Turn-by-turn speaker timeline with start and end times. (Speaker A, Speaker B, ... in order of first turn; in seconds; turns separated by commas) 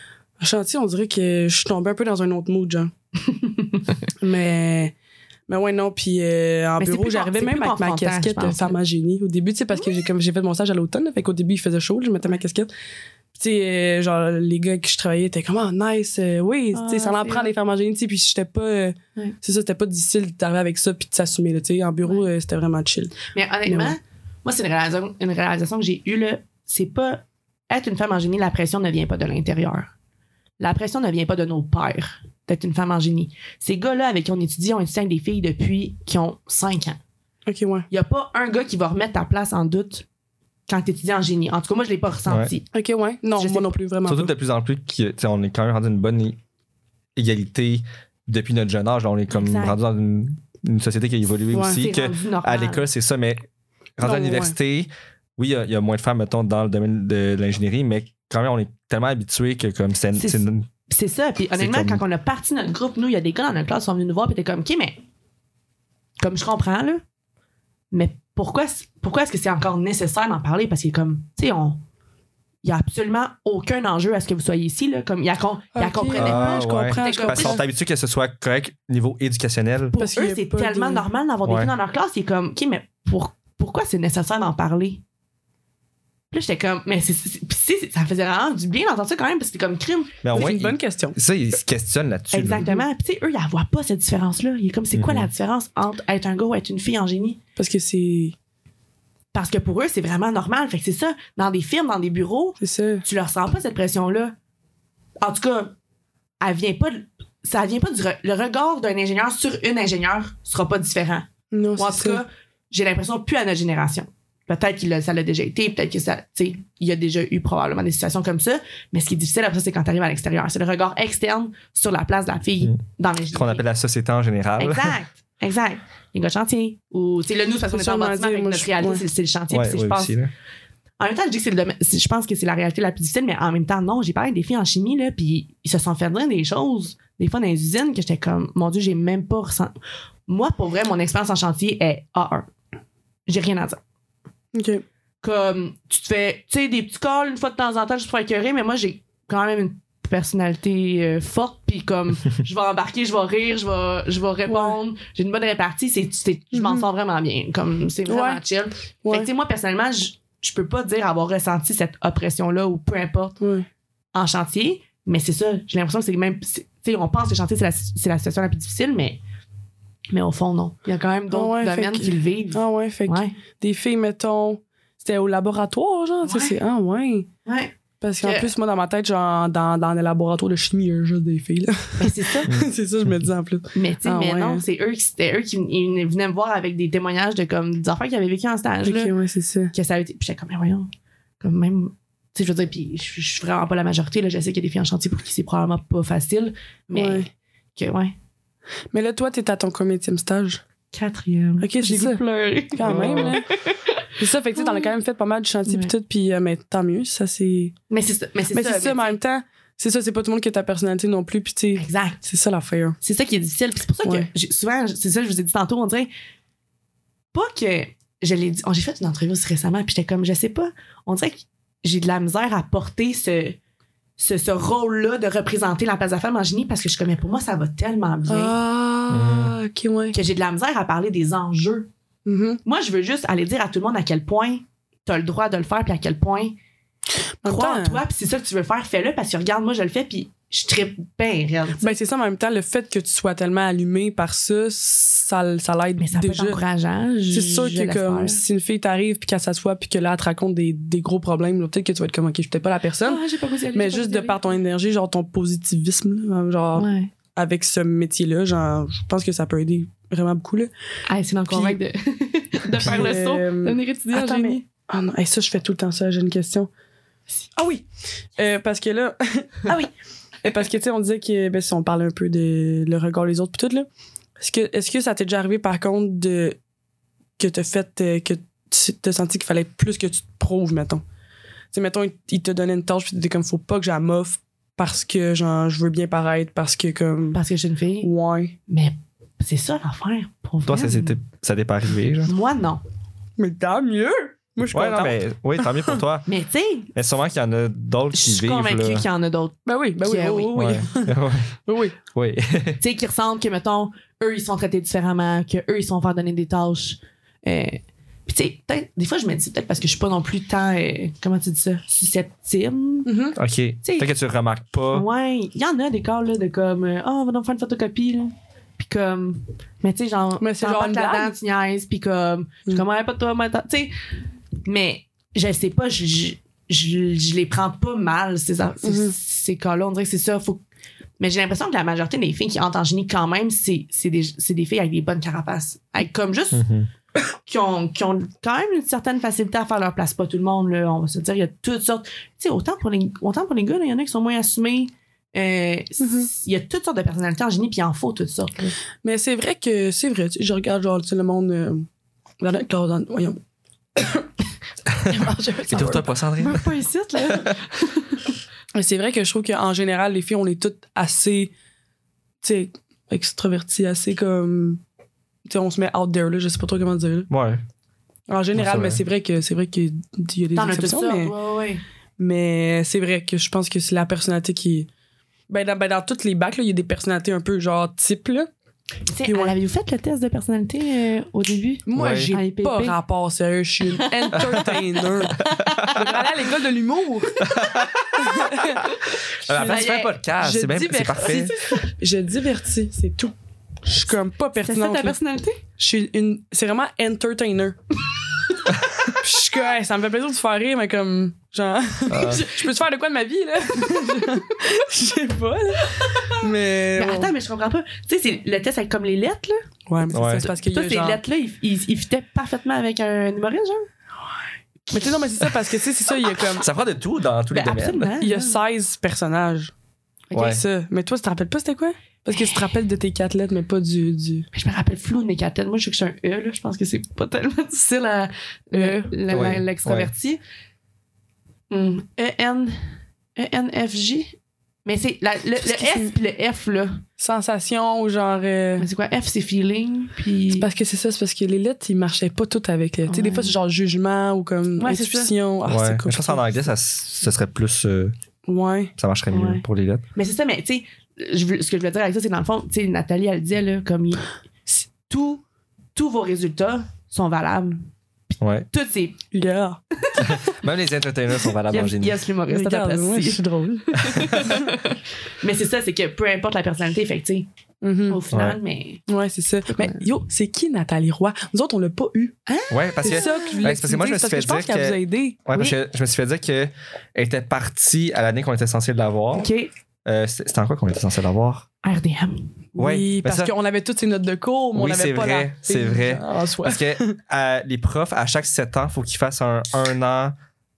Speaker A: 0.4-2.9, Speaker B: 3.4-3.8, Speaker A: 4.2-4.9, Speaker A: 5.5-12.7, Speaker B: 6.8-8.8, Speaker A: 13.3-23.9, Speaker B: 16.7-17.5, Speaker B: 23.3-29.9, Speaker B: 30.6-37.0, Speaker A: 37.5-37.9, Speaker B: 37.9-40.0, Speaker B: 40.7-42.7, Speaker A: 42.7-44.3, Speaker B: 43.4-43.7, Speaker C: 44.0-46.4, Speaker C: 47.1-53.5, Speaker B: 49.3-49.8, Speaker A: 51.5-51.8, Speaker B: 51.8-52.9, Speaker C: 54.0-60.7, Speaker A: 54.0-54.5, Speaker B: 60.1-64.9, Speaker C: 61.6-62.0, Speaker B: 66.2-67.0, Speaker B: 67.9-71.8, Speaker B: 72.6-77.6, Speaker A: 75.7-77.6, Speaker C: 76.1-80.0, Speaker B: 79.9-85.0, Speaker A: 79.9-81.0, Speaker C: 81.4-81.7, Speaker B: 86.3-90.5, Speaker C: 90.2-92.6, Speaker A: 90.3-91.2, Speaker B: 92.3-97.4, Speaker A: 92.6-92.8, Speaker C: 94.9-95.3, Speaker A: 97.6-98.3, Speaker B: 99.3-104.3, Speaker A: 102.6-103.0, Speaker B: 105.2-105.7, Speaker B: 106.4-123.6, Speaker A: 111.5-112.2, Speaker C: 123.3-125.0, Speaker B: 124.6-130.2, Speaker A: 127.7-129.0, Speaker C: 129.5-130.3, Speaker B: 131.0-139.7, Speaker B: 140.3-142.5, Speaker B: 143.3-143.8, Speaker A: 144.5-144.8, Speaker B: 145.2-163.4, Speaker A: 154.5-154.8, Speaker A: 156.5-156.8, Speaker A: 158.1-158.4, Speaker A: 163.4-163.7, Speaker B: 164.1-169.2, Speaker B: 170.1-173.3, Speaker A: 171.3-177.3, Speaker B: 176.2-176.5, Speaker B: 177.4-178.5, Speaker A: 178.0-184.6, Speaker B: 182.0-182.5, Speaker B: 183.7-189.1, Speaker A: 188.8-189.7, Speaker B: 189.7-190.9, Speaker B: 191.4-198.1, Speaker A: 196.9-197.3, Speaker A: 198.9-200.6, Speaker B: 200.9-203.9, Speaker A: 201.6-202.2, Speaker A: 202.7-203.5, Speaker A: 204.2-207.7, Speaker B: 204.6-204.9, Speaker B: 205.7-205.9, Speaker B: 207.9-209.2, Speaker A: 208.5-213.0, Speaker B: 211.8-212.2, Speaker B: 213.0-216.1, Speaker A: 214.0-214.3, Speaker B: 217.3-223.6, Speaker B: 224.2-228.5, Speaker A: 228.3-230.2, Speaker C: 229.1-229.6, Speaker B: 230.1-231.9, Speaker A: 232.2-232.6, Speaker B: 232.6-236.5, Speaker A: 237.4-238.0, Speaker B: 237.4-241.9, Speaker A: 241.8-246.6, Speaker B: 246.0-248.4, Speaker A: 247.3-253.2, Speaker B: 253.0-254.5, Speaker A: 253.7-260.7, Speaker B: 256.7-257.1, Speaker B: 261.1-264.6, Speaker A: 261.5-261.8, Speaker A: 262.8-266.7, Speaker A: 267.6-267.8, Speaker A: 268.4-269.7, Speaker A: 270.4-273.9, Speaker A: 274.4-276.6, Speaker A: 277.4-281.0, Speaker A: 281.7-287.4, Speaker B: 287.3-288.1, Speaker A: 288.0-288.6, Speaker B: 288.7-291.2, Speaker C: 290.6-292.3, Speaker B: 292.2-292.8, Speaker A: 293.4-296.0, Speaker C: 294.7-296.3, Speaker B: 296.3-296.9, Speaker C: 296.9-299.1, Speaker B: 298.1-300.9, Speaker A: 299.6-301.1, Speaker C: 300.6-301.5, Speaker A: 301.6-302.0, Speaker C: 302.1-302.8, Speaker B: 302.8-313.1, Speaker A: 313.0-313.4, Speaker C: 313.4-315.1, Speaker B: 313.8-314.1, Speaker B: 314.9-323.9, Speaker A: 320.4-321.3, Speaker B: 324.6-330.6, Speaker A: 328.8-329.1, Speaker B: 331.2-336.6, Speaker C: 336.5-336.9, Speaker B: 337.4-348.7, Speaker A: 346.0-346.3, Speaker A: 349.0-351.9, Speaker A: 352.4-353.4, Speaker A: 354.0-354.3, Speaker A: 355.0-356.0, Speaker C: 355.7-356.7, Speaker B: 356.4-358.2, Speaker A: 358.7-361.5, Speaker A: 362.4-364.8, Speaker A: 365.4-367.3, Speaker C: 367.3-367.6, Speaker A: 368.3-371.3, Speaker C: 368.5-369.0, Speaker B: 370.5-371.8, Speaker A: 372.2-374.9, Speaker A: 375.5-378.5, Speaker B: 379.1-382.9, Speaker A: 379.2-379.5, Speaker A: 381.9-387.4, Speaker C: 381.9-382.3, Speaker B: 383.9-384.8, Speaker B: 385.4-386.1, Speaker C: 387.4-388.0, Speaker A: 388.2-388.9, Speaker C: 389.4-391.6, Speaker A: 389.5-389.8, Speaker B: 389.5-390.1, Speaker A: 390.4-395.1, Speaker B: 394.6-395.6, Speaker A: 395.8-397.8, Speaker A: 399.1-407.3, Speaker C: 402.1-402.4, Speaker B: 402.2-402.7, Speaker B: 407.0-409.6, Speaker A: 409.9-411.2, Speaker C: 410.1-410.5, Speaker B: 410.3-413.9, Speaker A: 414.9-416.6, Speaker B: 414.9-415.5, Speaker C: 416.5-418.1, Speaker B: 417.5-418.6, Speaker A: 418.2-419.7, Speaker C: 420.3-420.6, Speaker A: 420.3-424.4, Speaker B: 422.3-422.6, Speaker B: 424.5-430.4, Speaker A: 428.7-429.0, Speaker C: 429.3-430.1, Speaker B: 431.7-432.8, Speaker B: 433.4-437.0, Speaker A: 435.6-436.1, Speaker A: 437.2-438.9, Speaker B: 438.8-440.7, Speaker A: 440.6-446.6, Speaker B: 443.1-443.6, Speaker B: 444.8-445.3, Speaker C: 445.7-448.1, Speaker A: 448.5-448.9, Speaker C: 449.0-450.0, Speaker B: 449.3-455.4, Speaker B: 455.9-459.2, Speaker C: 458.4-458.6, Speaker A: 459.3-459.8, Speaker B: 459.9-460.4, Speaker C: 460.2-462.2, Speaker B: 461.5-467.5, Speaker A: 462.5-464.7, Speaker A: 467.8-468.2, Speaker B: 468.1-469.0, Speaker C: 468.3-468.6, Speaker A: 469.1-472.3, Speaker B: 469.7-470.0, Speaker B: 472.5-473.5, Speaker C: 472.7-479.5, Speaker A: 473.0-475.4, Speaker B: 479.3-479.7, Speaker C: 480.0-481.7, Speaker B: 481.8-482.4, Speaker A: 482.8-487.1, Speaker C: 482.8-483.5, Speaker C: 484.7-490.4